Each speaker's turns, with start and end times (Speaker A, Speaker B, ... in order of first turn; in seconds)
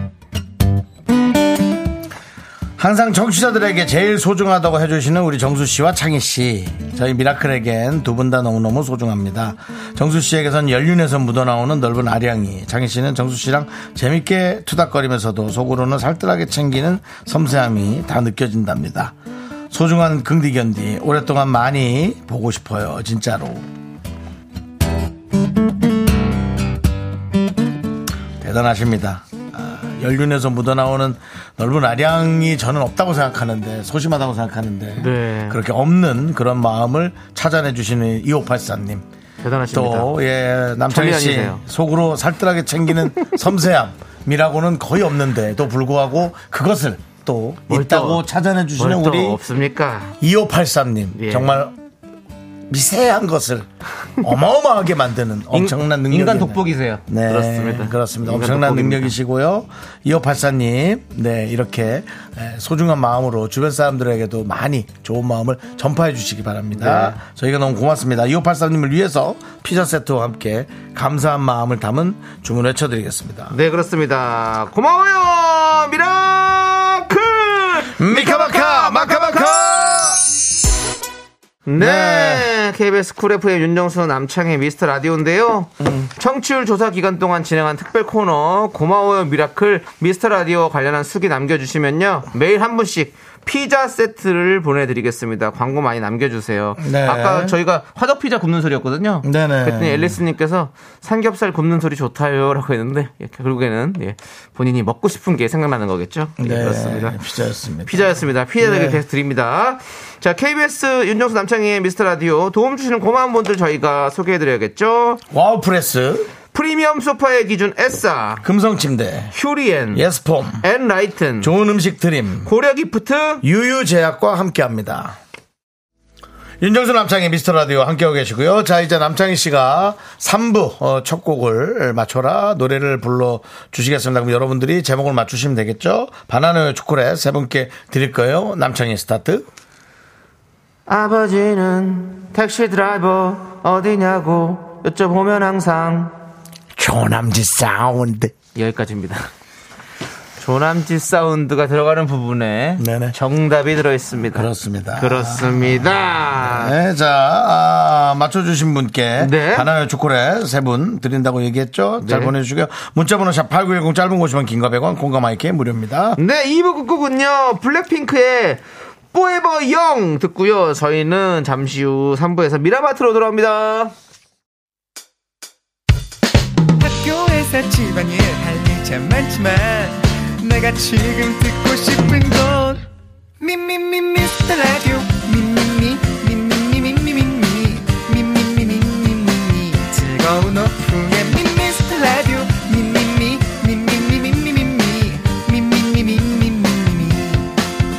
Speaker A: 2.8-19.1, 19.7-23.7, 28.4-39.0, 39.7-49.4, 50.2-51.8, 52.7-53.7, 54.2-73.6, 78.0-80.2, 81.8-82.5, 96.8-97.6, 99.2-100.2, 106.4-109.0, 115.3-116.3, 118.4-119.3, 119.9-120.6, 121.4-122.5, 123.4-125.2, 126.6-139.5, 146.8-148.3, 152.8-153.2, 154.3-166.2
Speaker B: 35.0-35.6, 39.4-40.2, 40.9-41.6, 47.7-48.2, 48.8-50.2, 51.1-51.6, 55.5-59.1, 66.8-67.2, 73.5-79.6, 81.7-107.2, 107.8-115.2, 116.5-118.5, 119.3-120.0, 120.6-121.5, 122.5-123.5, 140.9-146.1, 148.6-149.3, 150.4-156.7, 159.2-159.7, 162.0-162.3, 166.2-168.6, 169.1-173.9
Speaker C: 176.8-182.9, 183.4-197.5